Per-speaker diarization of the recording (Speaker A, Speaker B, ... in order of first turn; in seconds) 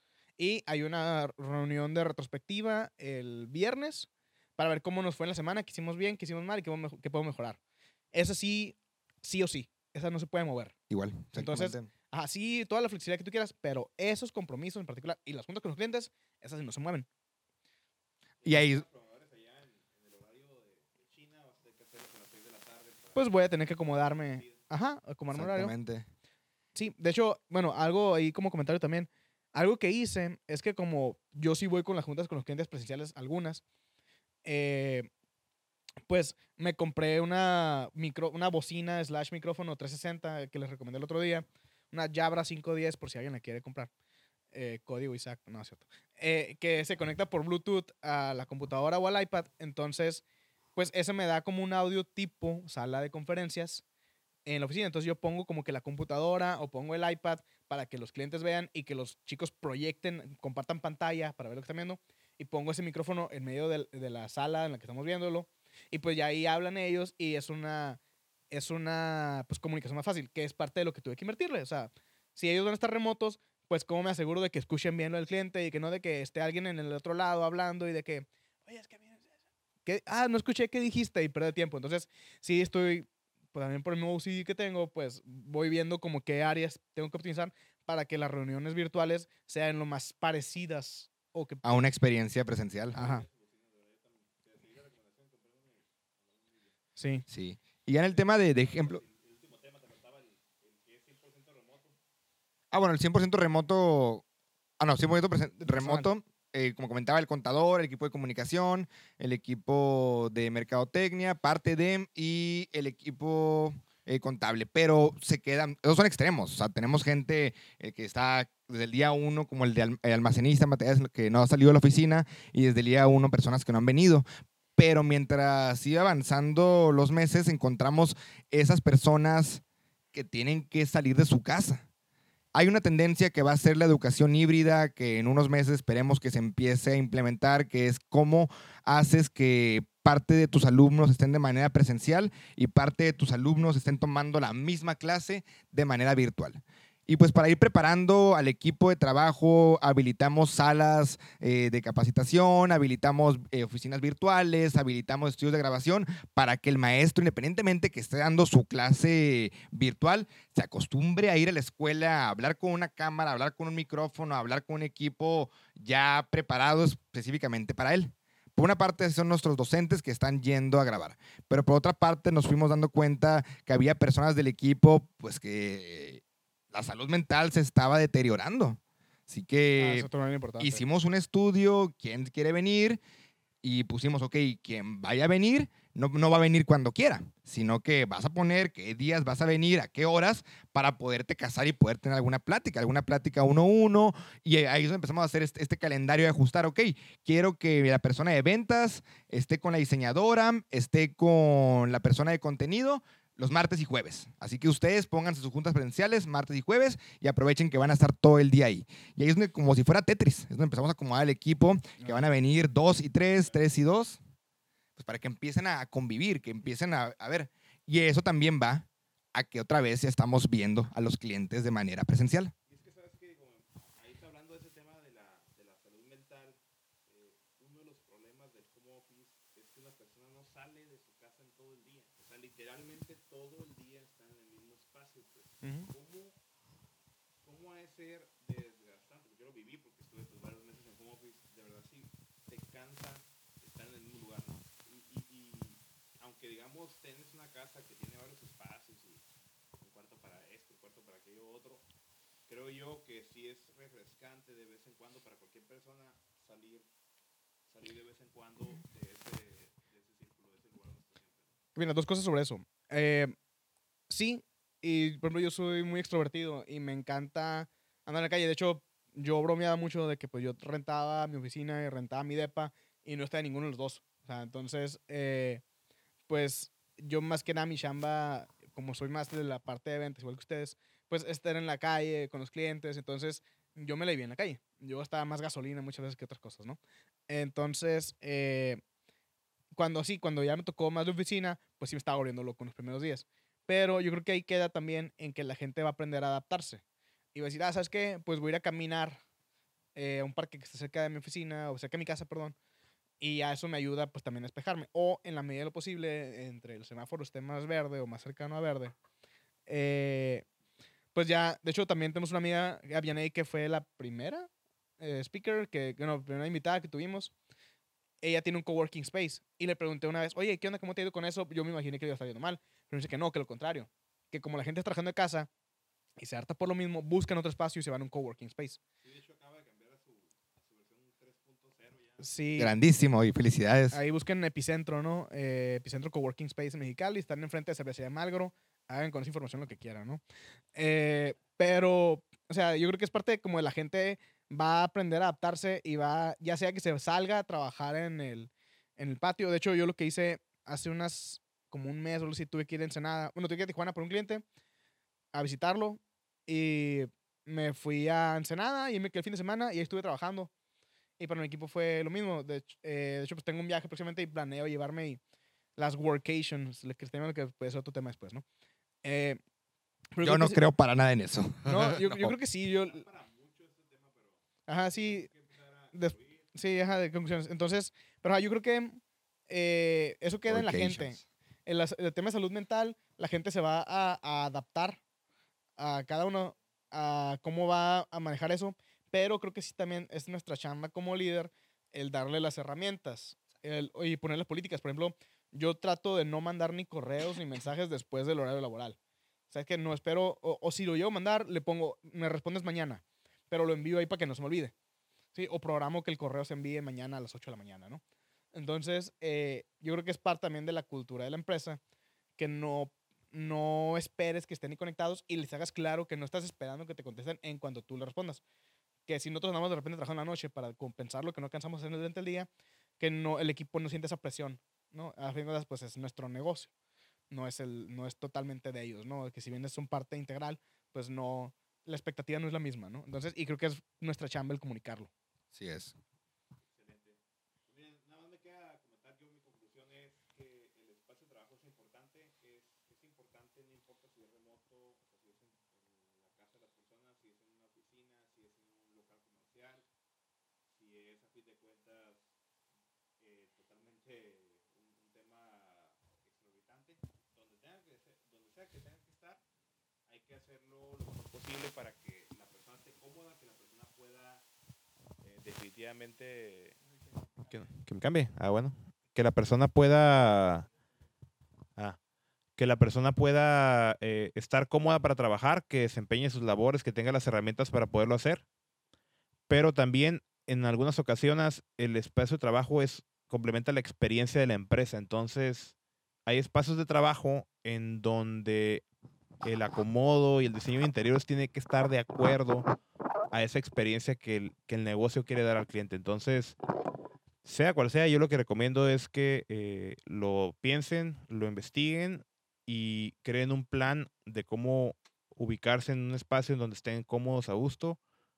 Speaker A: 0.4-7.6, 8.1-10.7, 11.3-17.1, 23.1-25.7, 26.7-33.6, 34.4-35.1, 36.1-43.9, 44.5-50.2, 50.8-53.8, 54.4-68.0, 68.5-79.3, 79.8-91.7, 92.9-93.2, 97.0-97.2, 105.6-106.1, 179.8-180.8, 212.0-212.3, 235.6-235.9, 261.8-263.3, 264.1-275.6, 276.3-288.8, 289.7-296.8, 297.3-299.2, 299.9-302.6, 303.2-308.9, 309.7-310.4, 311.1-314.5, 315.0-317.3, 318.2-325.5, 326.2-328.8, 332.2-332.7, 333.9-340.2, 340.7-354.4, 355.3-360.5, 361.2-365.2, 365.8-368.4, 369.0-369.4, 370.1-370.6, 371.6-373.0, 374.7-375.3, 375.9-385.0, 385.8-399.0, 399.5-404.7, 405.3-408.0, 408.5-411.8, 412.4-418.4, 419.1-422.5, 423.0-426.7, 427.3-435.1
Speaker B: 10.9-11.9, 18.4-18.8, 25.3-26.1, 91.6-93.0, 97.3-99.0, 102.7-104.2, 104.8-124.2, 124.8-129.6, 130.1-131.8, 132.5-183.0, 183.6-214.2, 215.0-222.5, 332.6-334.0, 370.2-372.3, 380.5-381.2, 435.5-435.9
Speaker C: 18.4-24.6, 92.9-96.8, 98.0-102.0, 222.7-236.4, 237.4-249.2, 249.8-251.8, 252.5-256.9, 257.7-261.6, 329.0-332.5, 372.8-376.5, 436.7-449.9, 450.7-452.3, 453.2-459.4, 460.1-464.4, 465.2-466.8, 467.4-470.7, 472.6-478.4, 479.5-485.7, 486.2-488.8, 489.4-492.7, 493.3-496.5, 497.4-508.0